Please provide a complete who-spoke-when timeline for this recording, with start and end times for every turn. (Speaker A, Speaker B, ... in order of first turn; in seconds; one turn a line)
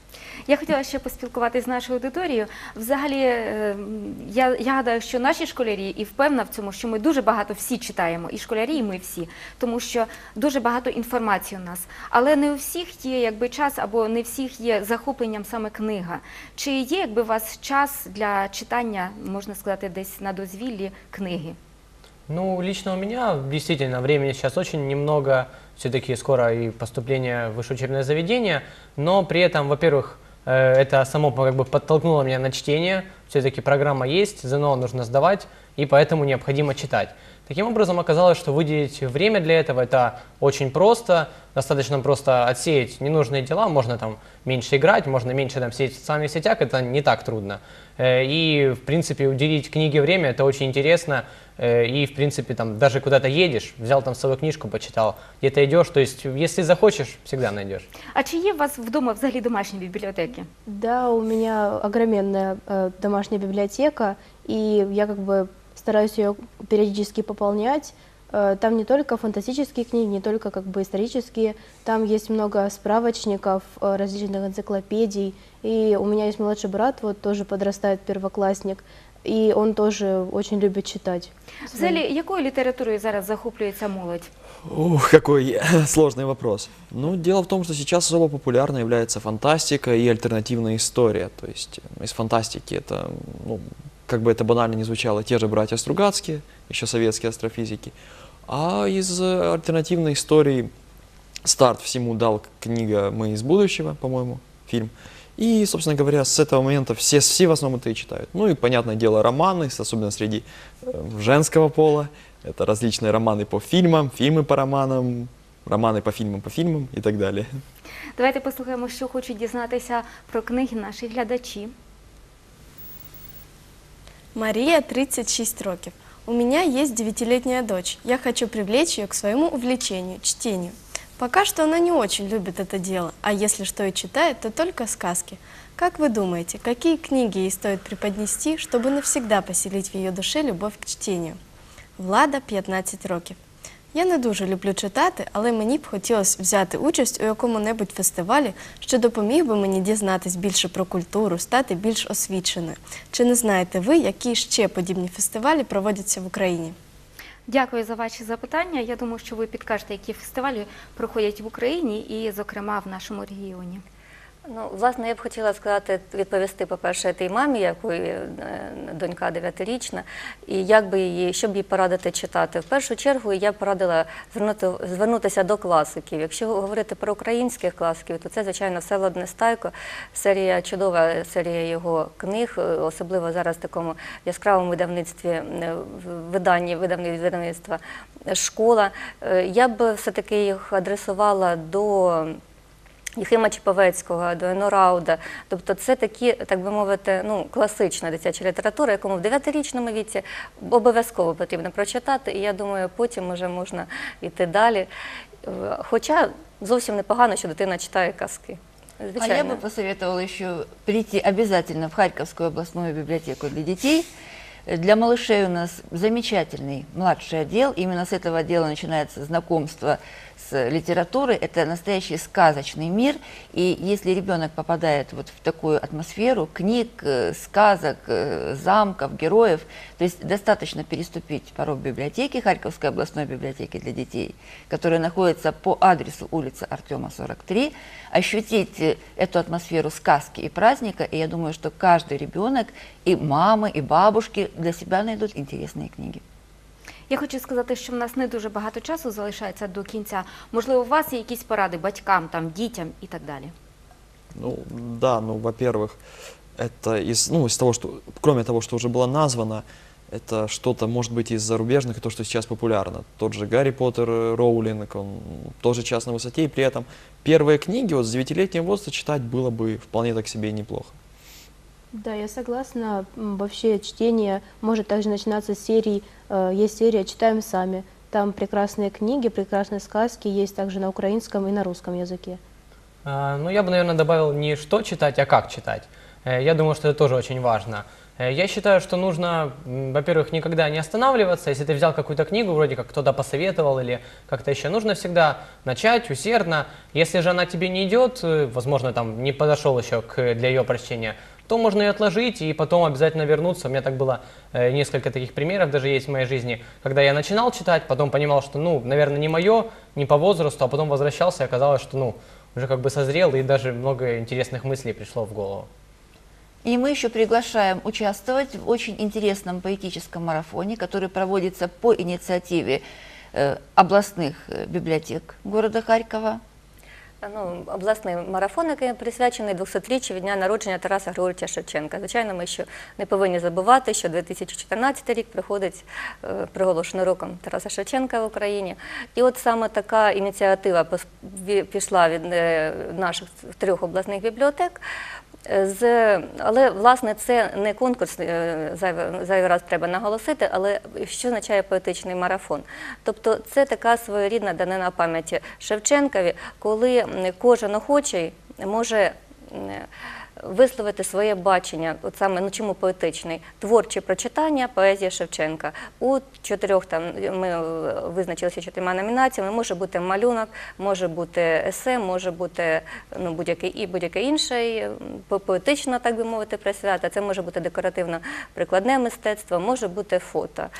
Speaker A: 0.5-21.6
Speaker B: 22.3-57.9
Speaker A: 58.1-60.5
Speaker C: 60.7-82.0
Speaker A: 81.7-84.3
Speaker D: 84.7-98.0
Speaker D: 98.5-100.7
Speaker D: 101.5-117.6
Speaker A: 118.2-121.7
Speaker E: 124.3-141.4
Speaker E: 142.0-143.4
Speaker E: 143.9-156.8
Speaker A: 157.5-163.8
Speaker F: 164.5-192.4
Speaker F: 193.2-204.9
Speaker F: 205.4-209.6
Speaker G: 209.2-214.1
Speaker G: 214.7-246.2
Speaker A: 247.1-253.5
Speaker D: 254.3-256.0
Speaker D: 256.6-270.9
Speaker C: 271.9-282.4
Speaker B: 283.1-315.7
Speaker G: 316.6-322.8
Speaker G: 323.3-326.4
Speaker F: 327.2-344.8
Speaker F: 345.5-359.9
Speaker F: 360.4-380.7